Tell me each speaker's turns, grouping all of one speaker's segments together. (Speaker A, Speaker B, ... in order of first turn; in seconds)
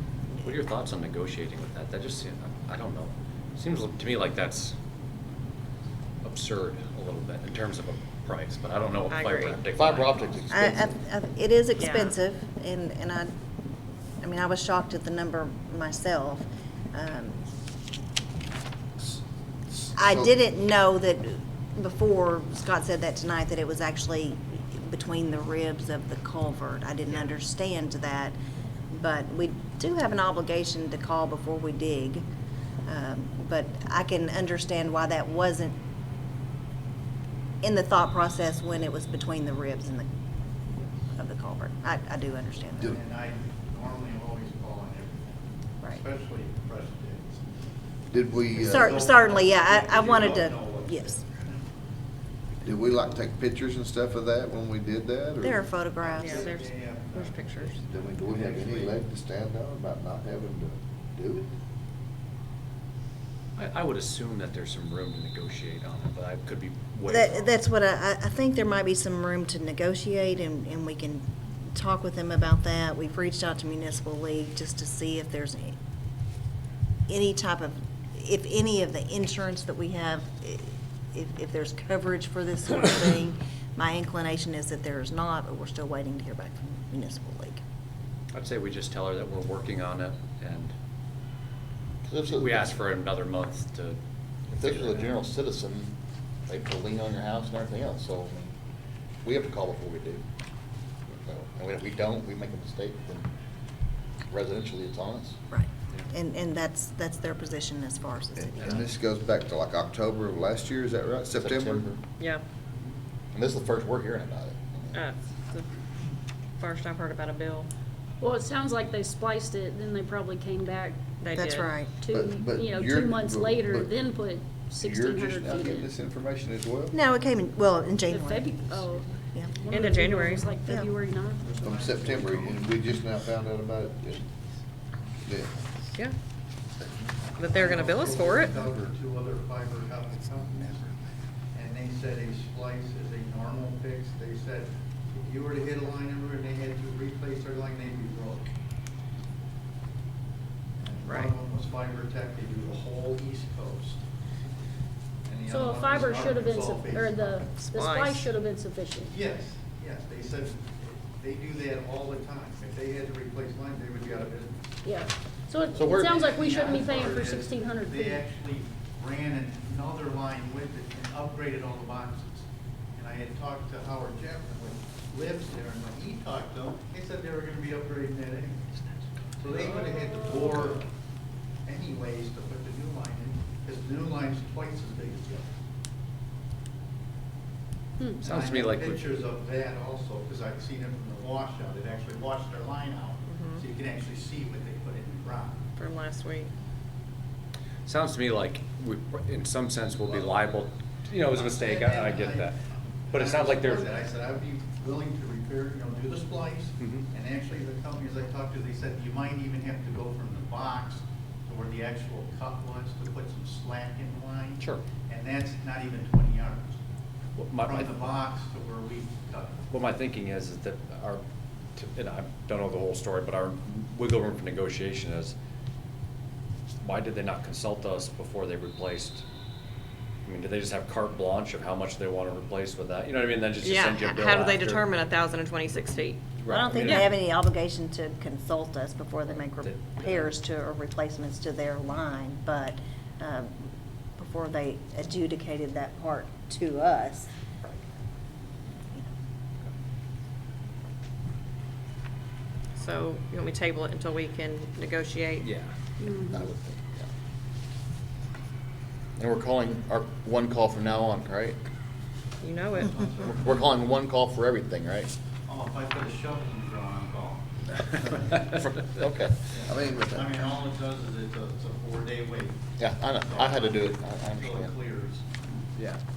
Speaker A: 0.4-4.7, 6.2-10.5, 63.5-67.5, 88.3-90.7, 92.3-94.0, 94.5-95.2, 188.2-189.0, 197.8-202.6, 203.1-203.9, 206.8-207.0, 214.6-214.8, 217.4-218.1, 219.7-221.2, 221.8-225.3, 226.8-229.2, 230.2-234.9, 236.4-237.1, 239.6-240.3, 255.4-255.7
Speaker B: 9.1-9.5, 11.8-12.0, 56.2-57.7, 114.9-115.6, 116.6-117.7, 121.2-121.7, 129.7-130.4, 137.4-138.6, 157.6-158.2, 193.3-193.6, 195.8-196.5, 233.6-236.2, 252.8-255.4, 262.4-263.3
Speaker C: 9.6-10.9, 92.0-92.8, 94.5-95.9, 96.5-98.5, 99.2-100.2, 101.1-103.3, 104.3-105.4, 111.3-112.0, 113.3-115.0, 165.7-166.3, 256.1-257.1, 259.2-261.6, 263.2-265.1, 268.4-269.5, 272.8-274.8
Speaker D: 10.5-13.3, 14.2-17.4, 19.9-28.4, 28.9-32.2, 32.9-35.8, 37.6-40.1, 41.1-43.0, 48.5-51.2, 55.4-56.5, 67.1-75.7, 77.1-87.6, 105.5-108.9, 121.3-122.0, 126.9-129.5, 130.5-130.9, 236.5-247.3
Speaker E: 19.0-20.3, 48.1-49.0, 52.6-55.7, 57.9-61.5, 108.3-111.9, 122.0-124.0, 124.7-127.0, 131.6-134.3, 135.2-135.5, 269.7-270.6
Speaker F: 42.9-47.4, 48.5-51.7, 56.0-59.0, 131.4-132.8, 136.8-141.0, 141.5-148.5, 150.8-154.0, 155.3-157.6, 159.1-164.8, 166.1-172.4, 172.9-178.7, 179.4-180.8, 181.6-185.5, 188.3-195.7, 201.3-216.8, 217.6-219.6, 262.7-263.7, 265.5-268.4, 269.5-272.6, 273.1-275.3
Speaker G: 118.2-121.0, 121.9-125.9, 128.1-131.8, 155.5-159.1, 164.8-168.2, 188.0-188.3, 256.0-256.5